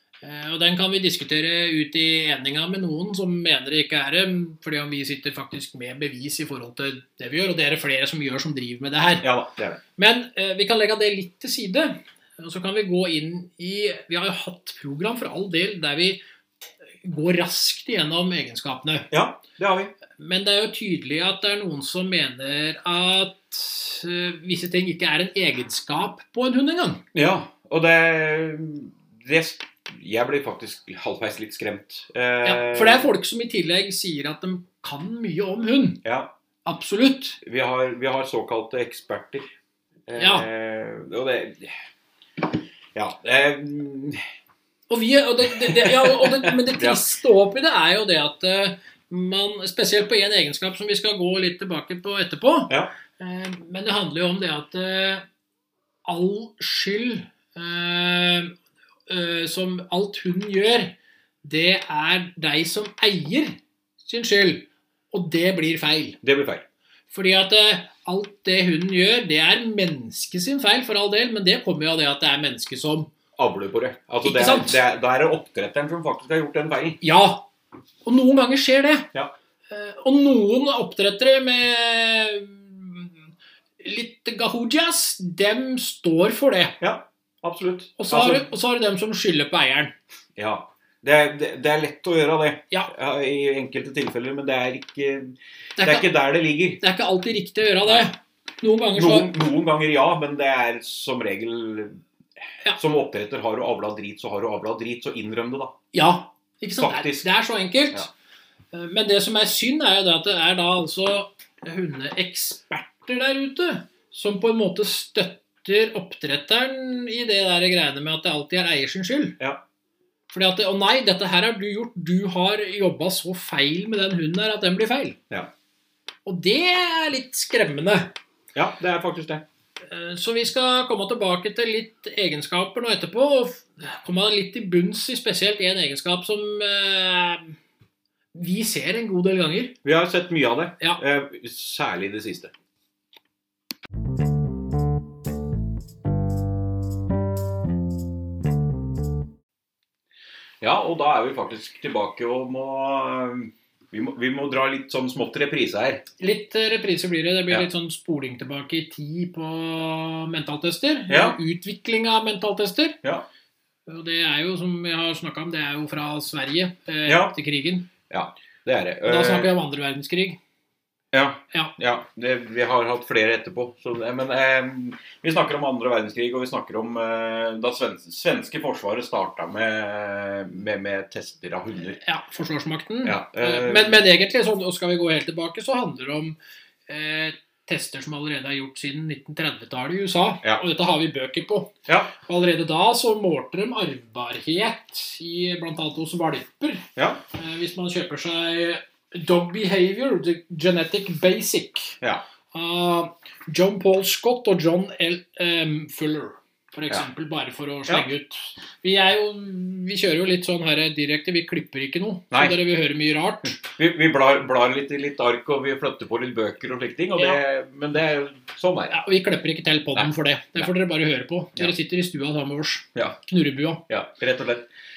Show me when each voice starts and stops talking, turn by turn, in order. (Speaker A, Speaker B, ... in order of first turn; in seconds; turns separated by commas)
Speaker A: 0.2-9.3, Speaker B: 9.2-9.8, Speaker A: 10.0-16.2, Speaker A: 17.0-19.1, Speaker B: 19.1-19.9, Speaker A: 20.2-27.0, Speaker B: 27.1-33.1, Speaker A: 32.5-36.0, Speaker B: 36.0-36.3, Speaker A: 36.6-37.4, Speaker B: 37.4-39.5, Speaker B: 40.1-41.8, Speaker A: 40.2-40.5, Speaker B: 42.9-44.2, Speaker A: 44.9-55.2, Speaker B: 45.6-47.0, Speaker A: 56.1-58.5, Speaker A: 59.1-66.2, Speaker B: 66.2-66.6, Speaker A: 67.1-73.1, Speaker B: 73.4-77.0, Speaker A: 74.2-74.8, Speaker A: 77.0-77.5, Speaker A: 78.0-79.1, Speaker A: 79.7-83.1, Speaker A: 83.8-86.8, Speaker B: 86.8-88.5, Speaker A: 88.0-90.0, Speaker B: 90.4-96.8, Speaker A: 95.8-96.2, Speaker A: 96.8-99.3, Speaker B: 99.0-102.0, Speaker B: 102.8-105.7, Speaker A: 105.9-108.1, Speaker B: 106.8-107.3, Speaker A: 108.7-119.4, Speaker A: 120.3-125.2, Speaker A: 126.3-128.2, Speaker B: 128.6-129.4, Speaker A: 129.9-137.6, Speaker A: 138.3-139.8, Speaker B: 139.8-142.5, Speaker B: 150.6-156.0, Speaker A: 156.2-163.0, Speaker B: 161.1-161.4, Speaker A: 163.9-167.9, Speaker B: 167.1-167.3, Speaker B: 168.1-169.5, Speaker A: 169.1-170.4, Speaker B: 171.1-182.0, Speaker A: 182.0-186.4, Speaker B: 183.0-184.0, Speaker A: 186.9-202.0, Speaker B: 191.9-192.1, Speaker B: 197.0-197.2, Speaker A: 202.5-213.6, Speaker B: 212.3-212.6, Speaker B: 213.6-219.0, Speaker A: 218.9-223.8, Speaker B: 219.9-220.7, Speaker B: 223.9-224.7